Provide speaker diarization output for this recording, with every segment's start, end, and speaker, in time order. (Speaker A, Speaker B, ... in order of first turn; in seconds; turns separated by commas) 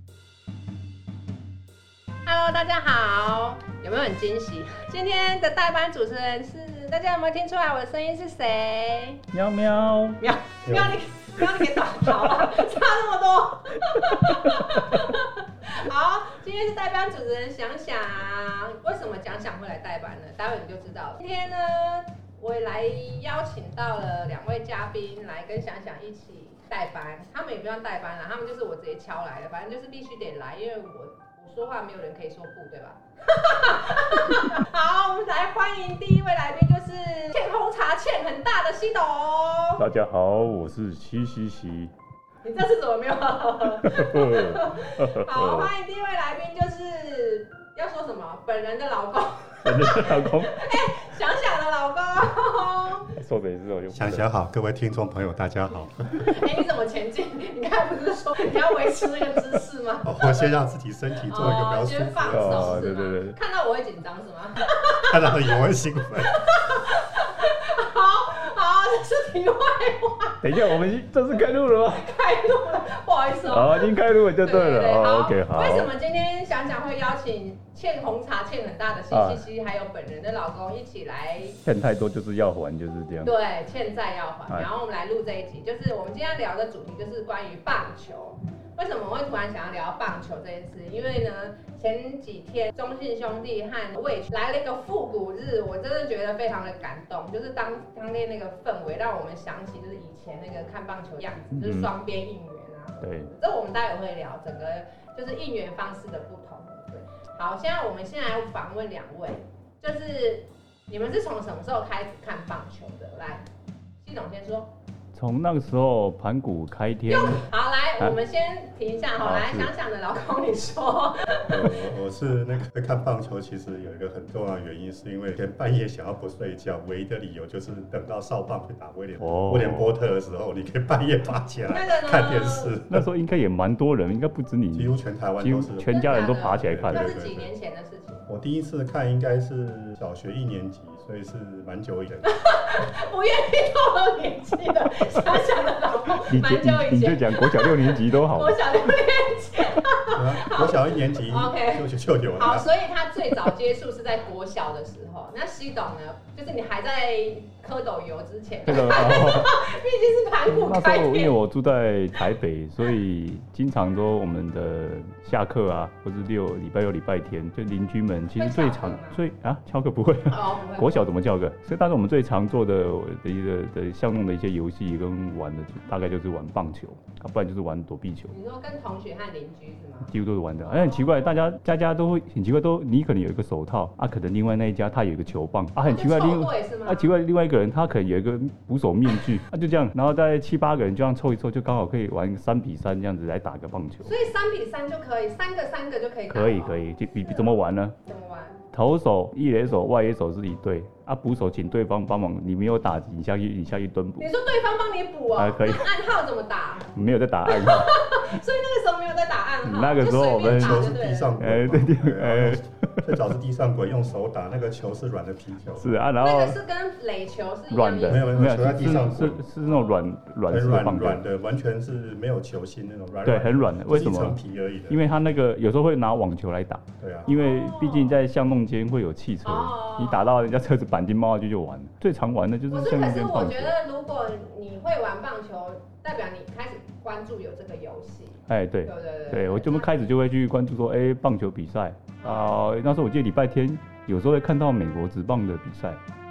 Speaker A: 2.3-9.2, Speaker B: 9.3-10.2, Speaker A: 10.2-39.8, Speaker C: 10.7-11.0, Speaker B: 11.6-12.4, Speaker B: 14.0-15.0, Speaker B: 39.8-41.9, Speaker A: 42.4-53.1, Speaker B: 43.8-45.7, Speaker B: 49.6-50.6, Speaker B: 53.1-54.2, Speaker C: 53.9-56.4, Speaker A: 56.2-60.5, Speaker C: 60.0-62.9, Speaker A: 61.3-65.5, Speaker B: 62.3-63.4, Speaker C: 65.1-66.4, Speaker A: 66.3-70.7, Speaker B: 70.4-72.1, Speaker A: 71.9-81.6, Speaker B: 73.5-75.9, Speaker B: 79.1-79.5, Speaker B: 81.6-83.3, Speaker A: 83.2-113.5, Speaker B: 101.6-101.9, Speaker B: 103.0-103.3, Speaker A: 114.0-114.7, Speaker B: 115.1-117.5, Speaker A: 117.1-121.7, Speaker B: 119.2-119.7, Speaker C: 121.5-133.1, Speaker B: 129.2-129.9, Speaker A: 131.7-132.8, Speaker B: 132.9-137.1, Speaker C: 134.7-137.5, Speaker A: 135.9-138.3, Speaker C: 138.3-142.3, Speaker A: 142.2-151.9, Speaker B: 146.2-148.9, Speaker C: 150.2-152.7, Speaker A: 152.4-161.3, Speaker B: 158.7-159.6, Speaker B: 160.5-178.3, Speaker A: 168.4-169.2, Speaker A: 170.3-171.1, Speaker A: 178.3-180.1, Speaker B: 180.1-194.1, Speaker A: 180.6-181.4, Speaker A: 185.9-187.1, Speaker A: 194.1-198.6, Speaker B: 196.3-198.0, Speaker B: 198.7-204.3, Speaker A: 204.2-206.9, Speaker B: 205.4-205.9, Speaker B: 206.9-208.0, Speaker A: 207.5-211.4, Speaker B: 209.6-212.6, Speaker C: 210.4-215.9, Speaker B: 215.8-216.6, Speaker A: 216.2-218.2, Speaker B: 217.7-221.2, Speaker C: 218.1-219.4, Speaker A: 219.6-219.9, Speaker C: 220.5-225.0, Speaker B: 223.2-224.4, Speaker B: 224.9-233.7, Speaker C: 227.0-227.3, Speaker A: 227.3-228.2, Speaker A: 229.4-230.3, Speaker A: 232.7-239.9, Speaker B: 238.5-246.0, Speaker A: 242.2-242.5